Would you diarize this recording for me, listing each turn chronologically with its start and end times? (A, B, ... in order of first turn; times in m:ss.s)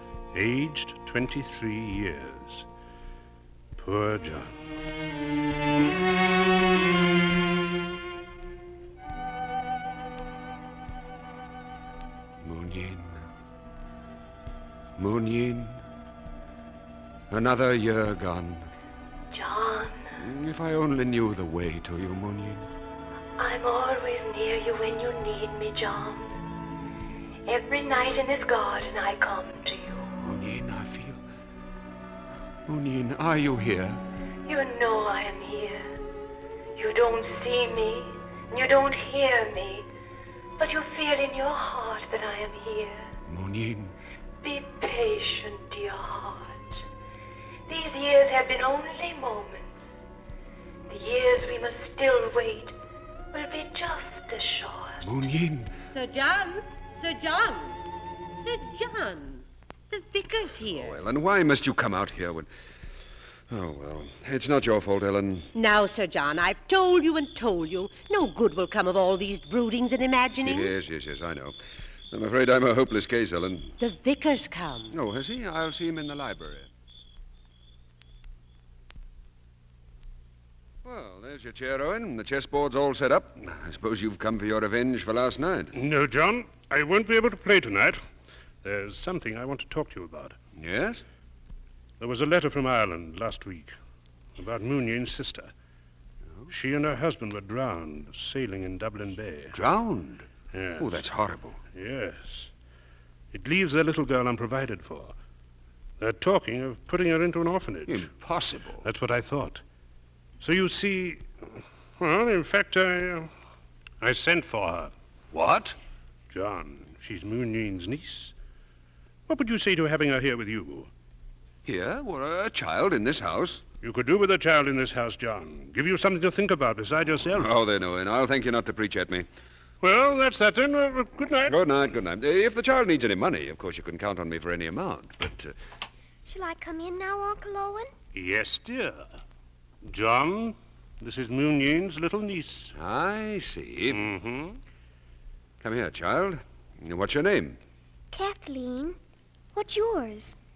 0:00.3-0:02.6 A
0:03.8-0:04.5 A
0:12.4-0:13.2 B
0:15.0-0:15.8 B
0:17.3-0:18.7 B
0:19.3-0:20.1 C
0:20.2-0:22.7 B
0:23.4-0:26.3 C
0:27.4-0:30.1 C
0:30.2-0:31.2 B
0:32.7-0:34.0 B
0:34.4-0:35.9 C
0:36.8-0:39.9 C
0:40.6-0:43.1 C
0:43.3-0:43.9 B
0:44.4-0:46.8 C
0:47.7-0:50.0 C
0:50.9-0:52.8 C
0:53.3-0:55.0 C
0:55.0-0:55.7 B
0:55.9-0:57.8 D
0:58.4-1:01.0 D
1:00.7-1:02.5 B
1:03.5-1:05.5 B
1:05.6-1:10.8 D
1:10.4-1:11.6 B
1:12.1-1:13.7 B
1:13.8-1:14.9 D
1:14.9-1:16.7 B
1:20.8-1:25.7 B
1:25.7-1:28.0 A
1:28.6-1:30.4 A
1:30.6-1:31.0 B
1:32.0-1:33.7 A
1:34.4-1:35.5 A
1:36.5-1:39.6 A
1:39.5-1:40.3 B
1:40.5-1:41.1 A
1:40.8-1:41.6 B
1:41.7-1:42.5 A
1:43.3-1:45.1 A
1:46.0-1:48.1 A
1:47.9-1:48.8 B
1:48.8-1:49.6 A
1:50.4-1:51.2 A
1:52.0-1:53.3 A
1:54.0-1:54.9 A
1:55.3-1:55.8 B
1:56.3-1:58.4 A
1:59.3-2:00.9 A
2:01.6-2:03.6 B
2:03.8-2:07.5 A
2:07.3-2:09.2 B
2:09.8-2:11.6 A
2:11.5-2:15.6 B
2:16.2-2:17.9 E
2:18.1-2:19.2 A
2:19.8-2:22.7 A
2:22.8-2:24.1 B
2:23.9-2:24.6 A
2:25.6-2:27.6 B
2:28.1-2:29.0 E
2:29.6-2:30.4 E